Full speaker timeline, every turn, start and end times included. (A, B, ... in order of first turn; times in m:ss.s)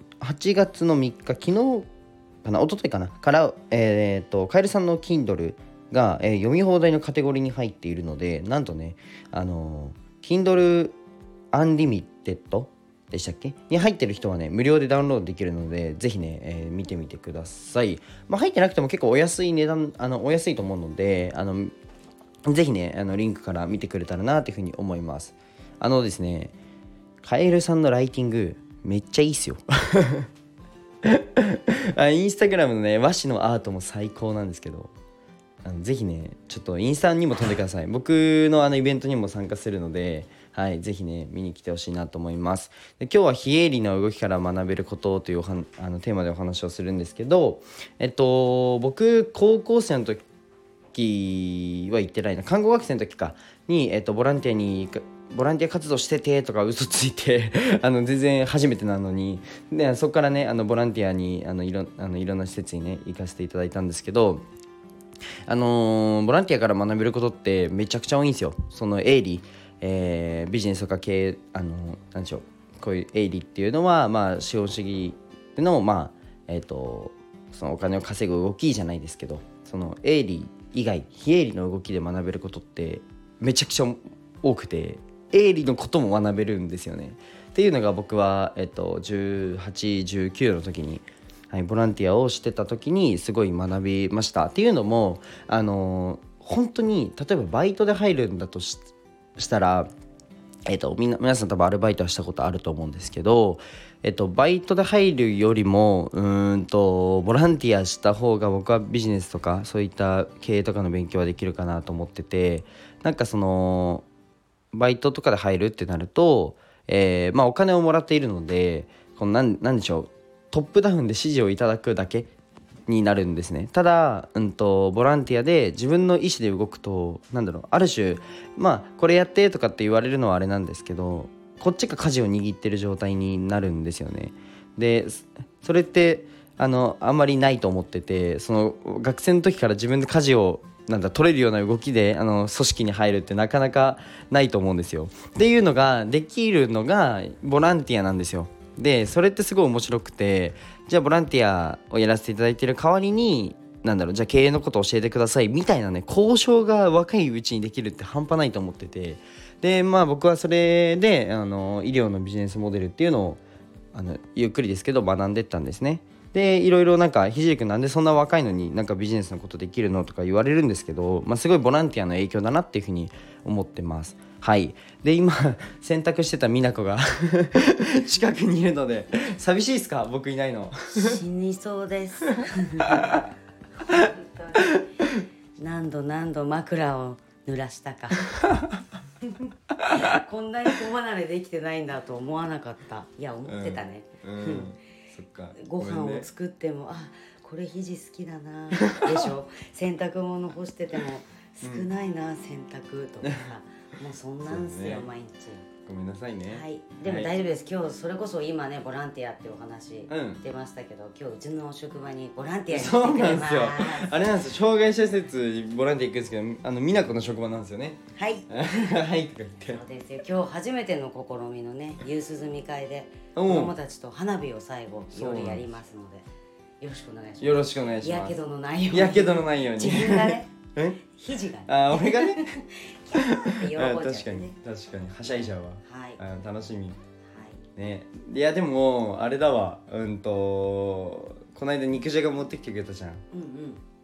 0:00.2-0:01.8 A
0:02.4-0:11.0 A
0:11.5-0:21.7 A
0:22.4-0:26.5 A
0:27.2-0:30.3 A
0:31.0-0:34.9 A
0:35.6-0:50.2 A
0:50.9-1:04.4 A
1:05.5-1:39.9 A
1:40.7-1:54.0 A
1:54.7-2:02.3 A
2:02.9-2:43.4 A
2:43.9-3:01.2 A
3:00.9-3:03.2 B
3:02.9-3:03.2 A
3:03.8-3:04.9 B
3:04.6-3:05.2 A
3:05.6-3:08.4 B
3:09.8-3:14.7 B
3:13.5-3:16.3 A
3:15.6-3:25.6 B
3:18.8-3:19.1 A
3:21.6-3:21.9 A
3:24.5-3:25.1 A
3:25.8-3:27.3 A
3:26.5-3:34.3 B
3:30.1-3:30.4 A
3:32.7-3:39.8 A
3:38.2-3:38.5 B
3:39.6-3:46.2 B
3:43.3-3:43.7 A
3:45.1-3:45.6 A
3:46.8-3:50.5 B
3:47.4-3:48.4 A
3:48.9-3:51.0 A
3:51.1-3:54.5 B
3:51.6-3:52.6 A
3:53.1-3:57.0 A
3:55.8-3:56.2 B
3:57.3-3:57.6 B
3:57.7-4:03.2 A
4:03.3-4:03.8 B